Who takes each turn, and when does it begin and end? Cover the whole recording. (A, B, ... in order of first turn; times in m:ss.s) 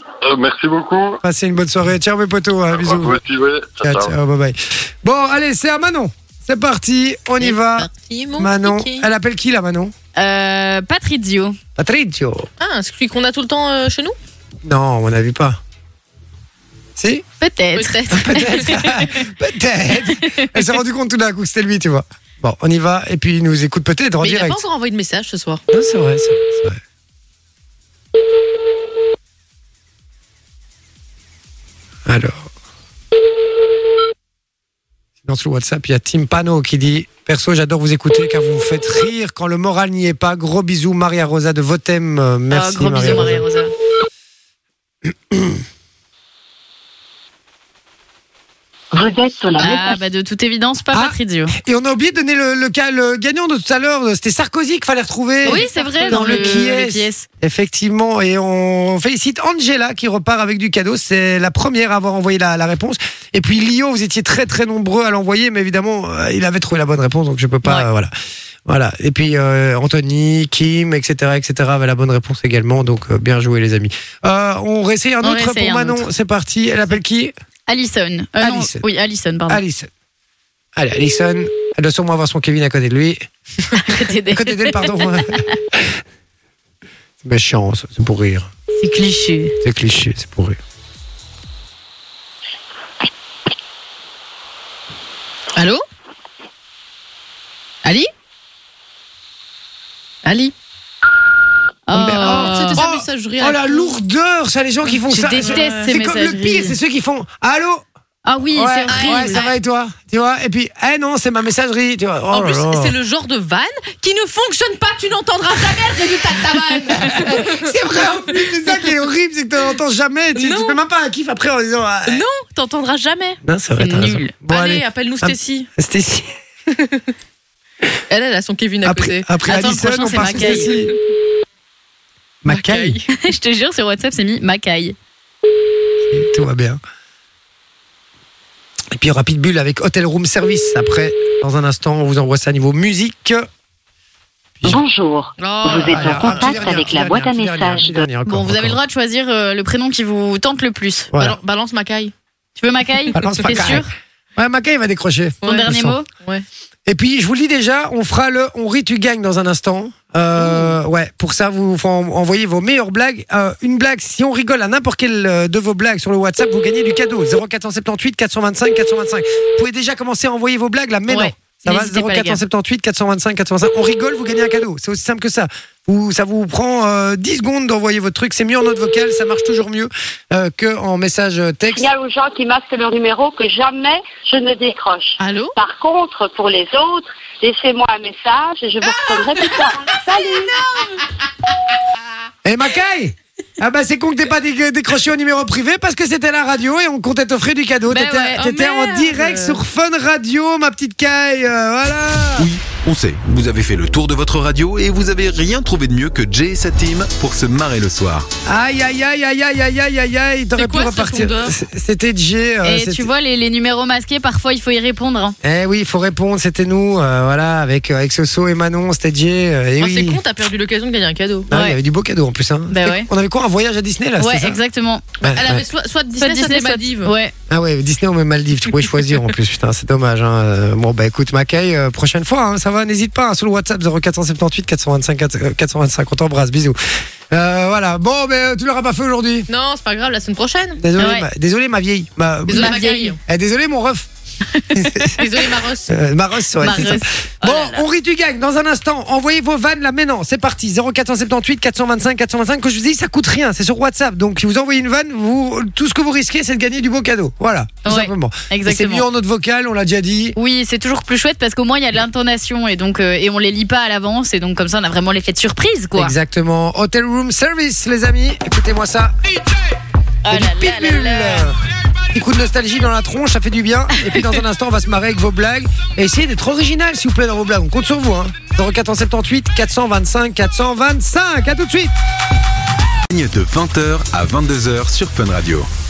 0:00.2-0:01.2 A
0:01.2-0:03.2 B
0:02.7-0:04.1 A
0:03.8-0:09.9 B
0:07.4-0:09.1 C
0:10.2-0:11.6 D
0:11.8-0:12.5 B
0:12.6-0:14.2 C
0:14.6-0:15.6 B
0:17.0-0:17.2 B
0:17.4-0:18.9 D
0:17.8-0:18.8 C
0:18.1-0:24.6 B
0:20.1-0:20.6 D
0:24.2-0:25.6 C
0:25.7-0:26.8 B
0:32.1-0:32.5 B
0:35.2-0:43.5 B
0:42.5-0:43.7 D
0:45.3-0:45.6 B
0:48.9-0:50.0 E
0:49.6-0:51.5 D
0:50.9-1:08.1 B
0:55.4-0:56.7 C
0:55.4-0:57.2 D
1:08.7-1:17.3 B
1:15.2-1:16.0 D
1:17.7-1:19.6 D
1:18.4-1:18.8 B
1:19.5-1:19.9 B
1:20.8-1:23.3 B
1:23.8-1:25.2 D
1:24.3-1:26.0 B
1:27.2-1:28.5 B
1:28.8-1:29.5 D
1:29.6-1:30.6 B
1:35.6-1:35.8 C
1:40.2-1:40.5 C
1:41.9-1:42.8 D
1:41.9-1:47.8 B
1:42.2-1:44.0 C
1:45.1-1:46.8 D
1:45.3-1:45.9 C
1:48.2-1:49.4 D
1:48.5-1:52.9 B
1:48.9-1:49.5 C
1:52.3-1:58.8 C
1:57.0-2:02.2 B
2:00.4-2:00.8 C
2:02.1-2:03.4 C
2:03.4-2:06.4 B
2:03.8-2:04.3 D
2:04.5-2:05.7 C
2:08.1-2:09.3 C
2:08.8-2:10.9 B
2:09.5-2:10.8 D
2:10.2-2:10.8 C
2:12.4-2:13.0 B
2:12.5-2:13.1 C
2:13.1-2:15.0 D
2:16.1-2:16.8 B
2:18.9-2:23.5 B
2:24.6-2:28.1 E
2:25.4-2:26.8 C
2:25.8-2:28.8 B
2:28.3-2:31.1 D
2:31.1-2:31.4 B
2:31.2-2:32.1 C
2:32.6-2:33.9 D
2:33.1-2:36.0 B
2:35.4-2:36.4 C
2:35.4-2:36.1 D
2:36.9-3:01.9 B
2:40.4-2:40.7 C
2:51.1-2:52.4 D
3:01.7-3:10.6 E
3:05.2-3:05.6 C
3:08.9-3:09.6 C
3:12.4-3:22.5 B
3:17.9-3:18.4 D
3:18.4-3:19.6 C
3:22.4-3:28.3 F
3:28.5-3:33.1 B
3:30.6-3:31.5 C
3:32.6-3:35.4 D
3:35.4-3:40.2 B
3:39.8-3:41.5 C
3:41.5-3:44.6 B
3:41.5-3:41.8 D
3:42.7-3:43.1 D
3:44.2-3:45.1 D
3:45.2-3:45.6 B
3:45.2-3:47.1 C
3:46.2-3:47.3 D
3:47.5-3:56.8 B
3:57.3-3:59.5 B
3:59.5-4:00.8 C
4:00.8-4:04.1 B
4:01.0-4:01.3 D
4:02.5-4:03.2 C
4:02.5-4:03.2 D
4:04.7-4:05.3 B
4:05.2-4:06.0 C
4:05.9-4:20.4 B
4:06.6-4:07.1 D
4:17.8-4:19.1 D
4:20.4-4:26.2 D
4:26.0-4:29.2 B
4:30.2-4:31.5 D
4:30.3-4:31.6 B
4:32.1-4:41.9 B
4:43.1-4:45.7 F